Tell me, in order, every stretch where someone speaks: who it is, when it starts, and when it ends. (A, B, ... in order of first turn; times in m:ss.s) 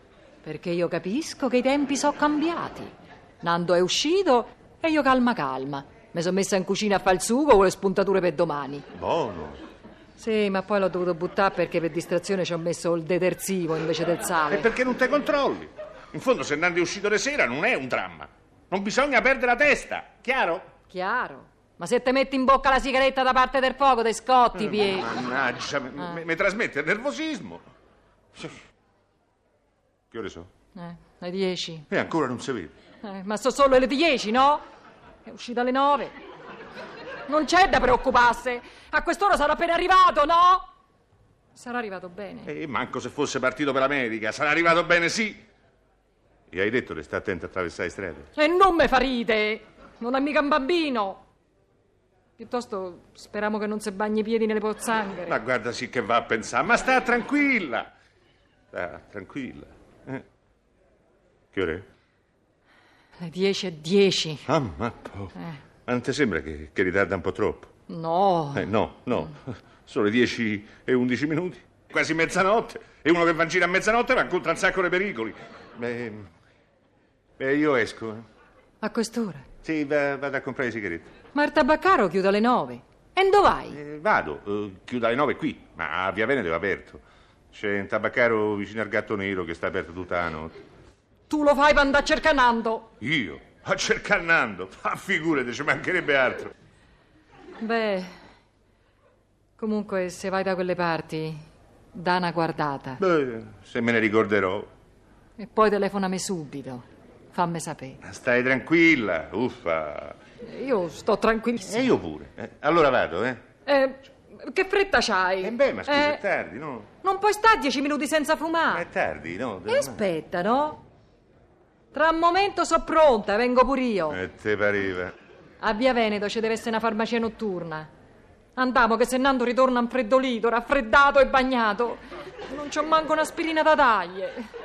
0:00.4-0:08.8 A
0:08.9-0:09.6 B
0:10.2-0:14.7 A
0:14.5-0:20.6 B
0:20.9-0:25.2 A
0:24.5-0:27.6 B
0:30.1-0:30.5 B
0:30.7-0:31.9 A
0:31.9-0:32.7 B
0:33.0-0:34.6 A
0:35.2-0:36.2 A
0:37.3-0:40.7 A
0:41.5-0:42.5 A
0:42.5-0:45.4 B
0:46.5-0:48.3 B
0:48.3-0:51.2 A
0:52.4-0:55.4 A
0:55.2-0:57.9 B
0:58.7-1:00.2 B
1:01.5-1:01.8 B
1:03.2-1:04.5 A
1:04.5-1:07.7 B
1:07.9-1:08.7 A
1:08.5-1:16.3 B
1:17.4-1:18.2 B
1:18.8-1:19.5 A
1:19.6-1:21.1 B
1:21.3-1:23.8 A
1:23.7-1:27.0 B
1:27.5-1:30.5 B
1:31.3-1:32.9 A
1:33.0-1:36.5 B
1:37.6-1:38.1 A
1:39.6-1:41.4 A
1:41.9-1:43.0 A
1:43.0-1:44.7 B
1:45.4-1:48.0 A
1:48.0-1:50.2 B
1:50.4-1:51.8 A
1:51.6-1:53.4 B
1:53.7-1:56.2 A
1:55.4-1:56.9 B
1:57.0-1:58.8 A
1:58.7-2:00.0 B
1:59.7-2:00.8 A
2:01.9-2:04.2 A
2:04.1-2:05.1 B
2:05.6-2:07.9 A
2:08.5-2:14.4 A